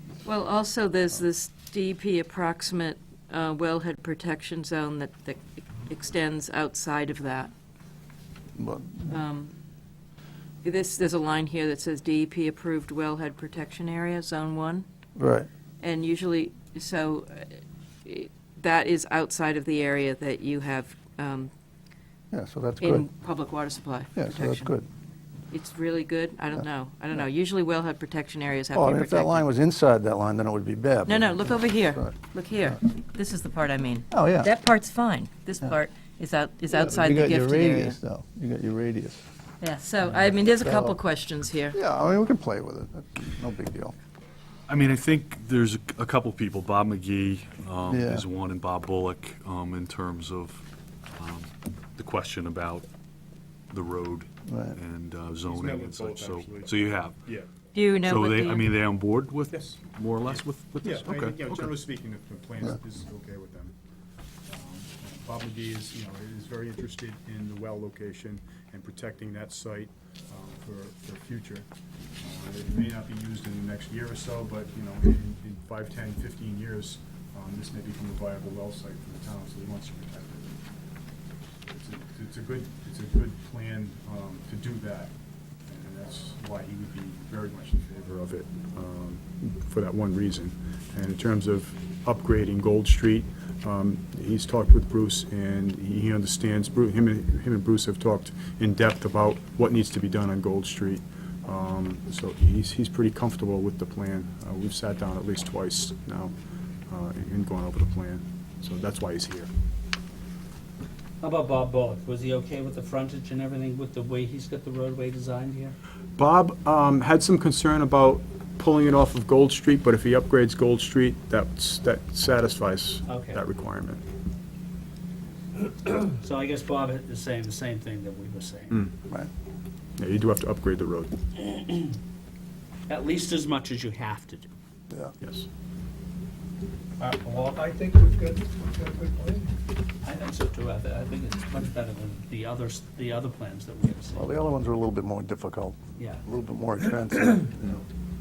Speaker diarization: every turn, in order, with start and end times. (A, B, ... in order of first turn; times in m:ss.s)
0:00.2-0:07.5 A
0:08.6-0:09.1 B
0:09.1-0:09.5 A
0:10.6-0:14.8 A
0:15.2-0:15.5 B
0:15.8-0:21.5 A
0:22.3-0:23.1 B
0:22.8-0:24.7 A
0:24.2-0:24.8 B
0:25.5-0:29.4 A
0:28.7-0:32.1 B
0:31.0-0:38.0 A
0:34.1-0:34.5 B
0:36.7-0:39.2 B
0:39.6-0:41.8 A
0:40.6-0:41.0 B
0:41.7-0:43.9 B
0:44.7-0:52.9 C
0:47.8-0:48.2 B
0:53.7-0:57.2 C
0:54.5-0:54.8 B
0:55.4-0:57.5 D
0:57.7-0:58.6 A
0:58.0-1:01.8 C
0:59.5-1:03.7 D
1:04.5-1:11.7 D
1:12.2-1:20.6 D
1:21.7-1:25.1 D
1:25.6-1:46.3 D
1:46.9-1:49.5 D
1:51.2-1:55.8 E
1:56.2-2:04.0 D
2:03.1-2:03.4 E
2:05.8-2:08.8 E
2:10.0-2:11.4 D
2:12.9-2:14.5 E
2:15.2-2:15.5 D
2:17.0-2:19.5 F
2:20.0-2:24.4 E
2:24.1-2:27.8 B